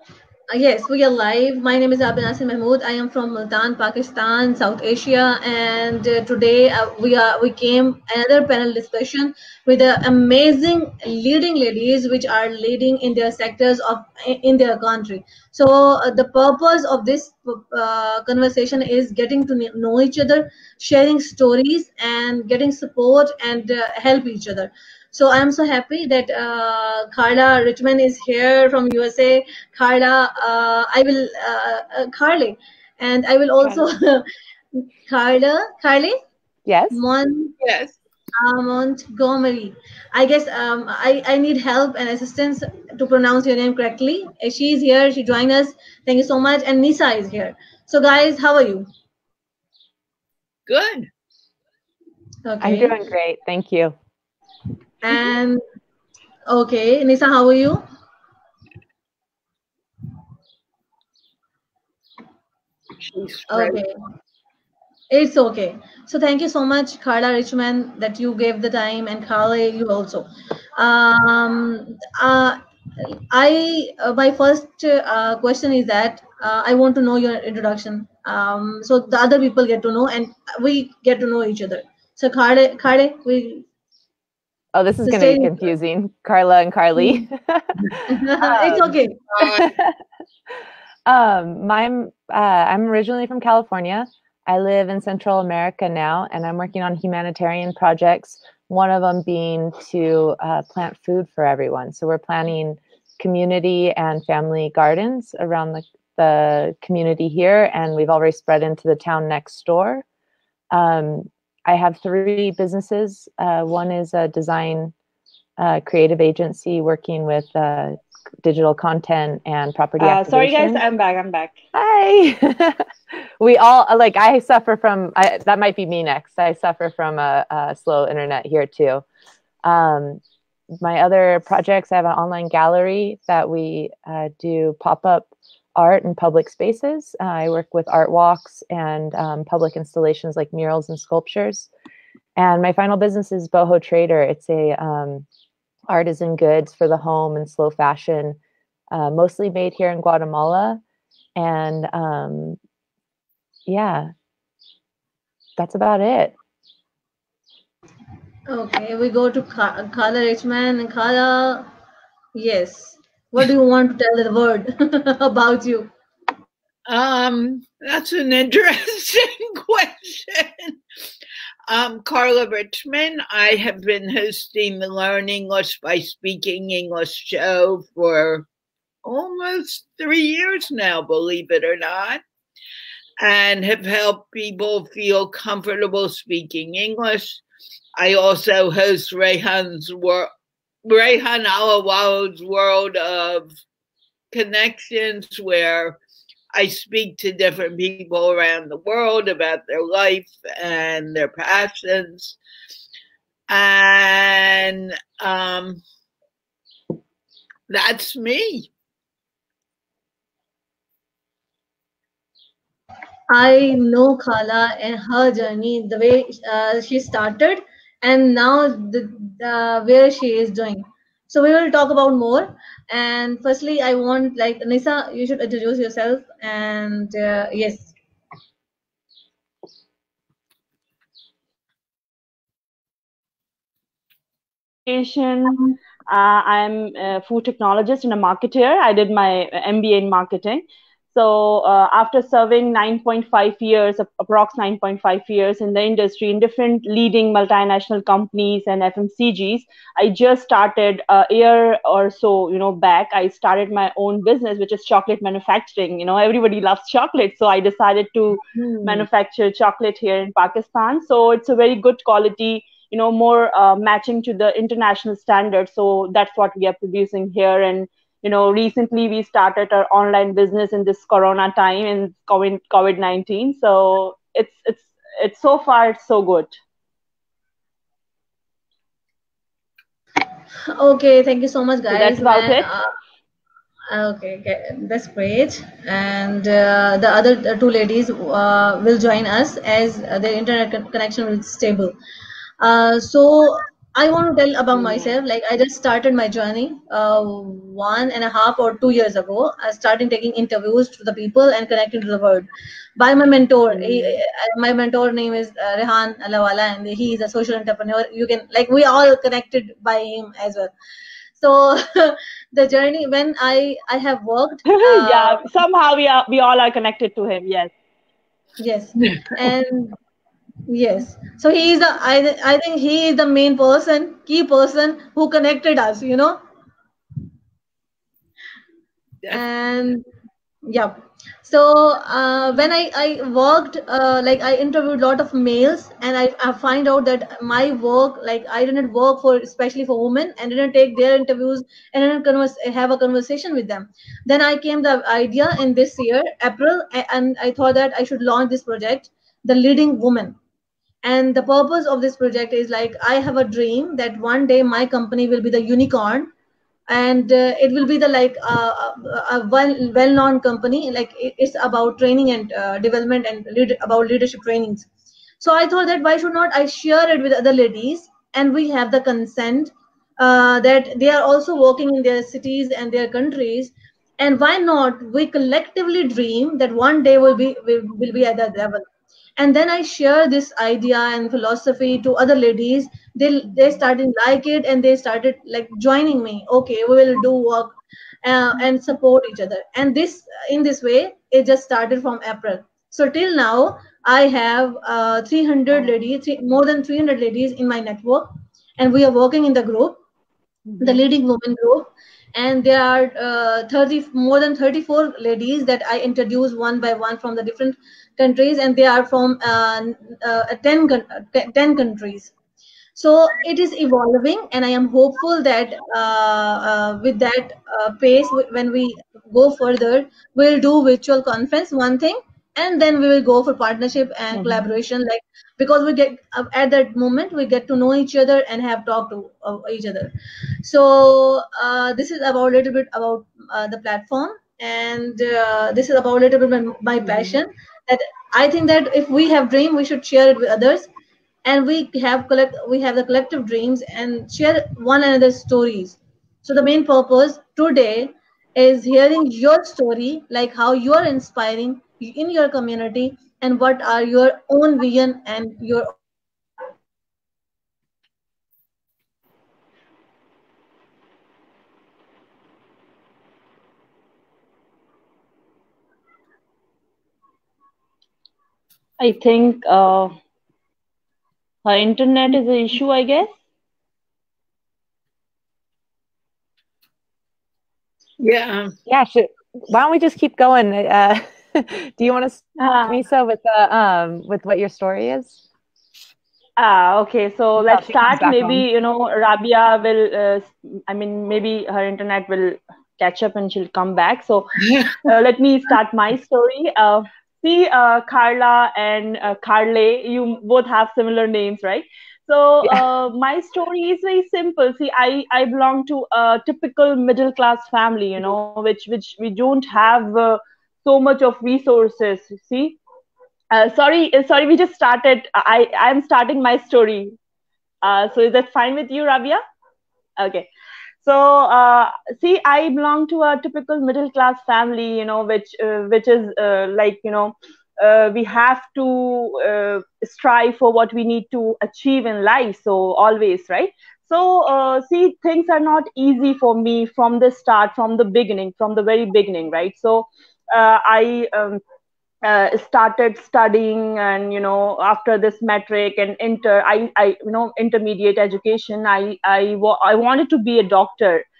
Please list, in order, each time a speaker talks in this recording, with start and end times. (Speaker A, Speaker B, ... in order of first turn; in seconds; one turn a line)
Speaker A: 0.5-36.2
Speaker B: 33.6-33.9
Speaker B: 36.7-37.0
Speaker A: 36.9-37.5
Speaker C: 37.6-38.0
Speaker A: 38.4-48.9
Speaker C: 50.7-51.1
Speaker A: 52.5-53.0
Speaker B: 52.6-54.0
Speaker A: 55.0-55.6
Speaker A: 56.5-57.9
Speaker C: 63.0-63.8
Speaker A: 63.5-63.9
Speaker A: 65.1-83.7
Speaker B: 84.7-90.0
Speaker A: 85.0-85.7
Speaker A: 88.1-89.2
Speaker C: 89.3-89.7
Speaker B: 91.1-110.0
Speaker B: 110.7-114.9
Speaker B: 115.6-120.8
Speaker D: 120.0-121.6
Speaker B: 121.7-122.9
Speaker B: 123.4-129.0
Speaker B: 129.6-130.2
Speaker B: 130.8-141.7
Speaker B: 142.4-145.3
Speaker B: 145.9-148.4
Speaker B: 148.9-150.8
Speaker B: 151.4-152.6
Speaker B: 153.7-154.1
Speaker B: 155.6-156.4
Speaker A: 158.5-161.7
Speaker A: 162.3-165.9
Speaker C: 166.9-170.8
Speaker C: 171.7-178.5
Speaker C: 179.1-182.2
Speaker C: 183.2-187.4
Speaker C: 188.0-190.3
Speaker C: 190.8-193.5
Speaker C: 194.3-196.0
Speaker C: 196.5-202.4
Speaker C: 203.5-205.8
Speaker C: 207.7-208.7
Speaker A: 213.3-227.9
Speaker D: 234.9-276.5
Speaker A: 280.7-282.9
Speaker D: 281.9-282.7
Speaker A: 283.9-291.9
Speaker A: 292.6-310.7
Speaker A: 311.4-315.4
Speaker D: 314.7-317.7
Speaker A: 318.6-320.0
Speaker A: 320.7-326.4
Speaker A: 329.3-330.1
Speaker A: 330.6-350.4
Speaker A: 351.0-356.3
Speaker A: 356.9-364.9
Speaker A: 365.4-378.9
Speaker A: 379.4-400.0
Speaker A: 400.8-412.3
Speaker A: 413.0-440.9
Speaker A: 441.5-456.0
Speaker D: 469.0-470.1
Speaker D: 471.6-473.3
Speaker C: 478.2-478.7
Speaker B: 478.9-485.4
Speaker D: 482.6-483.0
Speaker D: 486.6-512.8
Speaker B: 487.7-488.7
Speaker C: 494.6-495.0
Speaker D: 513.5-517.1
Speaker D: 517.8-519.4
Speaker D: 520.2-520.5
Speaker D: 521.0-541.6
Speaker D: 542.2-551.2